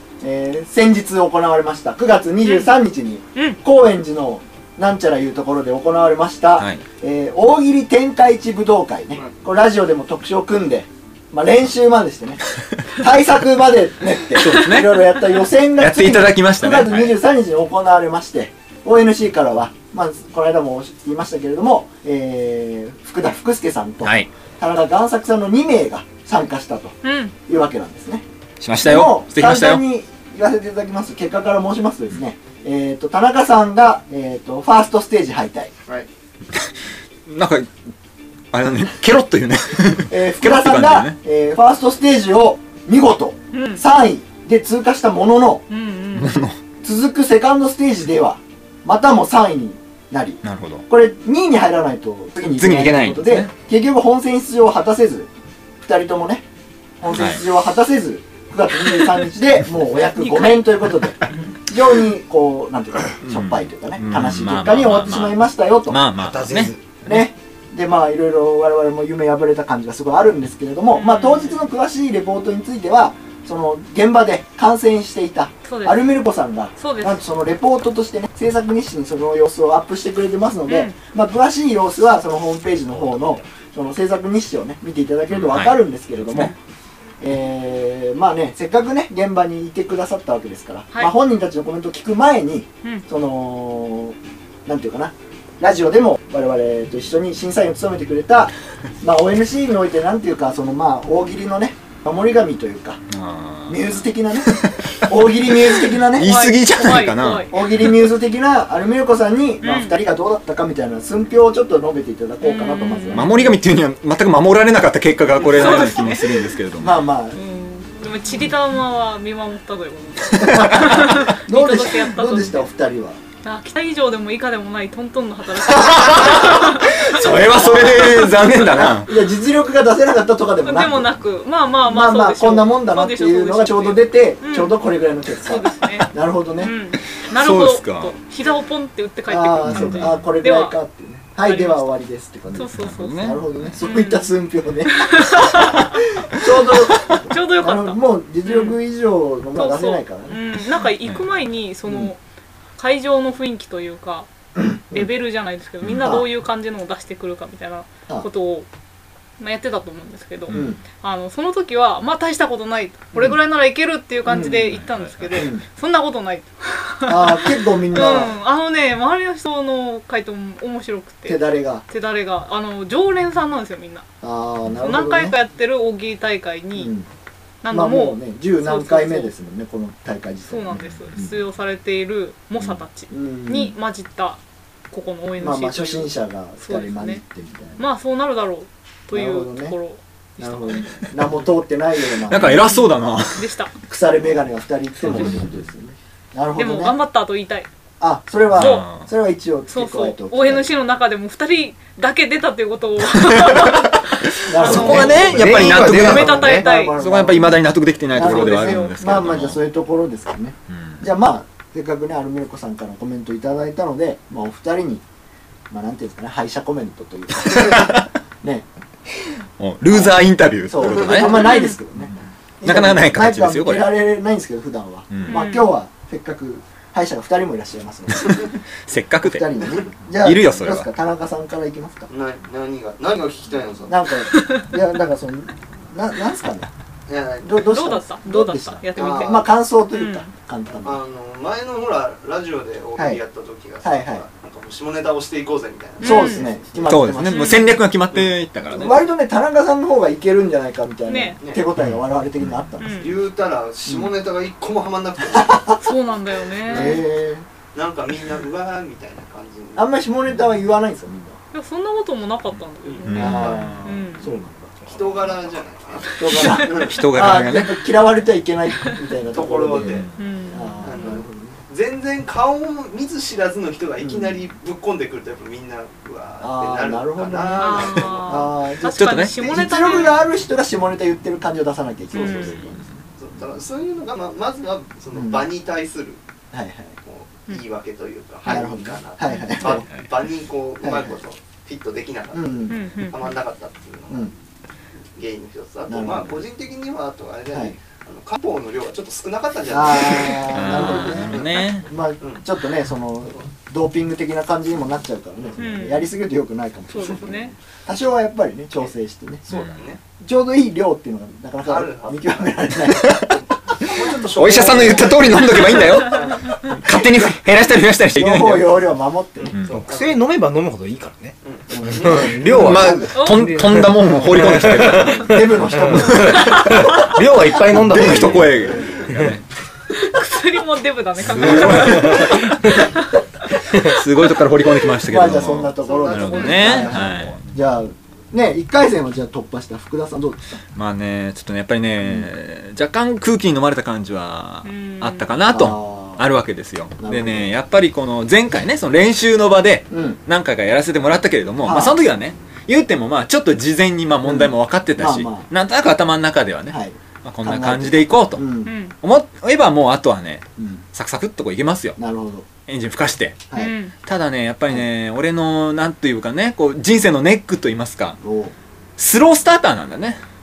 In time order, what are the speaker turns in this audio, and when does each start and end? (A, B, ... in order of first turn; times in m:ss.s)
0:00.2-0:28.2 A
0:14.4-0:15.1 B
0:15.8-0:17.1 B
0:24.0-0:24.3 B
0:27.0-0:27.3 C
0:28.6-0:29.8 B
0:28.8-0:35.7 A
0:37.3-0:37.7 B
0:38.5-0:41.2 B
0:40.1-0:45.6 A
0:43.5-0:43.8 C
0:45.7-0:46.3 C
0:46.1-0:46.6 B
0:46.8-0:55.3 A
0:50.4-0:50.8 B
0:52.4-0:53.5 B
0:55.8-0:56.4 A
0:57.0-1:06.0 A
0:57.1-0:57.4 B
1:00.1-1:00.6 C
1:03.2-1:07.3 B
1:06.2-1:06.8 D
1:07.0-1:26.5 A
1:10.9-1:11.6 C
1:15.6-1:16.2 C
1:16.8-1:17.2 C
1:20.7-1:20.9 C
1:25.3-1:25.8 B
1:26.3-1:26.5 B
1:27.2-1:43.0 A
1:43.1-1:47.8 B
1:43.7-1:46.4 A
1:46.2-1:47.5 C
1:47.5-1:53.3 A
1:49.6-1:50.0 C
1:52.4-1:53.6 C
1:53.1-1:57.0 B
1:55.4-1:56.5 C
1:56.8-1:57.4 A
1:57.4-2:02.7 C
2:00.3-2:01.2 B
2:00.4-2:03.2 A
2:03.4-2:07.3 C
2:05.7-2:09.1 B
2:07.5-2:11.1 A
2:10.6-2:14.8 C
2:11.9-2:16.7 A
2:15.4-2:20.7 C
2:17.3-2:18.1 B
2:19.3-2:30.4 A
2:19.7-2:20.3 B
2:21.4-2:21.9 C
2:22.5-2:24.3 C
2:22.8-2:23.8 B
2:24.9-2:26.0 C
2:27.3-2:28.8 C
2:29.6-2:32.2 C
2:31.8-2:32.1 A
2:32.8-2:34.3 C
2:34.6-2:35.1 A
2:34.9-2:38.7 C
2:35.8-2:36.2 B
2:36.0-2:36.3 A
2:39.4-2:54.1 C
2:40.5-2:40.7 B
2:40.5-2:40.8 A
2:44.3-2:44.7 A
2:44.5-2:45.4 B
2:45.3-2:45.6 A
2:47.0-2:48.3 A
2:51.2-2:51.8 A
2:54.2-2:55.4 A
2:54.8-2:56.9 C
2:56.8-2:57.1 A
2:57.6-2:59.3 C
2:57.7-3:01.4 A
3:00.5-3:04.4 C
3:00.7-3:01.2 B
3:03.1-3:03.7 A
3:04.9-3:07.2 C
3:05.4-3:07.8 A
3:07.8-3:11.1 C
3:09.1-3:09.8 A
3:10.4-3:12.6 A
3:12.2-3:13.5 B
3:12.4-3:13.7 C
3:13.9-3:17.0 A
3:15.1-3:15.4 B
3:16.6-3:17.7 C
3:18.0-3:20.7 A
3:18.5-3:19.0 B
3:18.6-3:18.9 C
3:19.7-3:27.0 C
3:23.2-3:24.0 B
3:24.4-3:35.0 A
3:24.6-3:29.6 B
3:24.8-3:26.7 D
3:28.2-3:29.0 C
3:30.7-3:31.0 B
3:35.7-3:38.6 A
3:37.4-3:38.1 B
3:39.6-3:43.9 B
3:39.9-3:48.5 A
3:40.8-3:41.2 E
3:41.2-3:41.8 C
3:45.1-3:45.4 B
3:45.3-3:45.7 C
3:48.2-3:50.9 B
3:49.2-3:52.1 A
3:52.1-3:54.0 E
3:53.9-3:56.7 A
3:54.3-3:54.6 C
3:57.1-3:57.6 E
3:57.4-4:01.0 A
3:57.6-4:00.3 C
3:58.9-3:59.4 E
4:00.8-4:06.8 E
4:03.0-4:03.2 A
4:03.8-4:04.2 A
4:06.0-4:06.4 C
4:06.0-4:07.6 A
4:06.8-4:09.0 B
4:07.2-4:07.8 C
4:08.1-4:08.9 E
4:08.7-4:13.0 A
4:11.1-4:11.4 C
4:12.8-4:13.2 C
4:13.0-4:15.8 E
4:13.9-4:14.1 A
4:15.3-4:15.8 A
4:15.8-4:17.0 C
4:16.6-4:17.0 E
4:16.7-4:17.4 A
4:17.7-4:19.9 E
4:19.8-4:21.4 A
4:21.5-4:24.2 C
4:22.8-4:23.8 E
4:23.0-4:23.7 B
4:23.1-4:25.2 A
4:24.8-4:27.1 E
4:26.1-4:31.6 A
4:26.8-4:27.8 B
4:29.3-4:30.1 E
4:30.2-4:31.2 C
4:30.8-4:38.6 E
4:34.0-4:34.4 A
4:36.4-4:43.0 A
4:37.6-4:40.2 C
4:38.9-4:39.4 B
4:42.1-4:46.2 E
4:42.1-4:42.7 C
4:45.1-4:45.5 A
4:46.5-4:47.0 A
4:47.0-4:52.5 E
4:48.4-4:49.9 A
4:49.3-4:49.7 C
4:50.8-4:51.2 A
4:52.3-4:52.8 A
4:52.7-4:53.3 C
4:53.1-4:54.3 E
4:55.1-5:01.6 E
4:55.9-4:56.4 A
4:57.5-4:57.8 A
4:59.7-5:09.5 A
5:00.5-5:01.9 B
5:05.6-5:06.1 C
5:06.9-5:07.5 C
5:09.5-5:09.9 B
5:09.5-5:10.0 E
5:10.2-5:13.2 A
5:11.6-5:12.5 E
5:12.9-5:13.3 B
5:13.3-5:16.4 E
5:13.8-5:15.2 A
5:14.3-5:18.8 B
5:16.9-5:17.3 A
5:18.1-5:19.6 A
5:19.4-5:20.2 E
5:19.5-5:19.8 B
5:19.7-5:21.4 D
5:21.4-5:22.4 E
5:21.7-5:23.0 A
5:21.9-5:28.6 D
5:22.4-5:25.3 B
5:23.1-5:23.5 C
5:25.2-5:26.8 A
5:26.1-5:26.8 B
5:27.7-5:29.4 B
5:28.6-5:29.2 E
5:29.9-5:33.6 C
5:31.2-5:32.4 B
5:31.3-5:32.7 D
5:33.8-5:37.4 B
5:35.1-5:40.4 A
5:35.8-5:37.3 E
5:36.4-5:36.8 C
5:40.8-5:58.4 B
5:44.6-5:45.2 C
5:45.5-5:46.2 A
5:47.0-5:47.5 A
5:49.9-5:50.2 A
5:51.6-5:52.0 A
5:54.2-5:55.5 A
5:56.7-5:58.8 A
5:58.6-5:58.9 C
5:59.0-6:02.0 B
6:00.6-6:00.8 A
6:02.0-6:02.4 A
6:02.7-6:03.4 B
6:03.6-6:03.9 C
6:04.0-6:08.2 B
6:08.2-6:08.5 A
6:09.0-6:10.2 B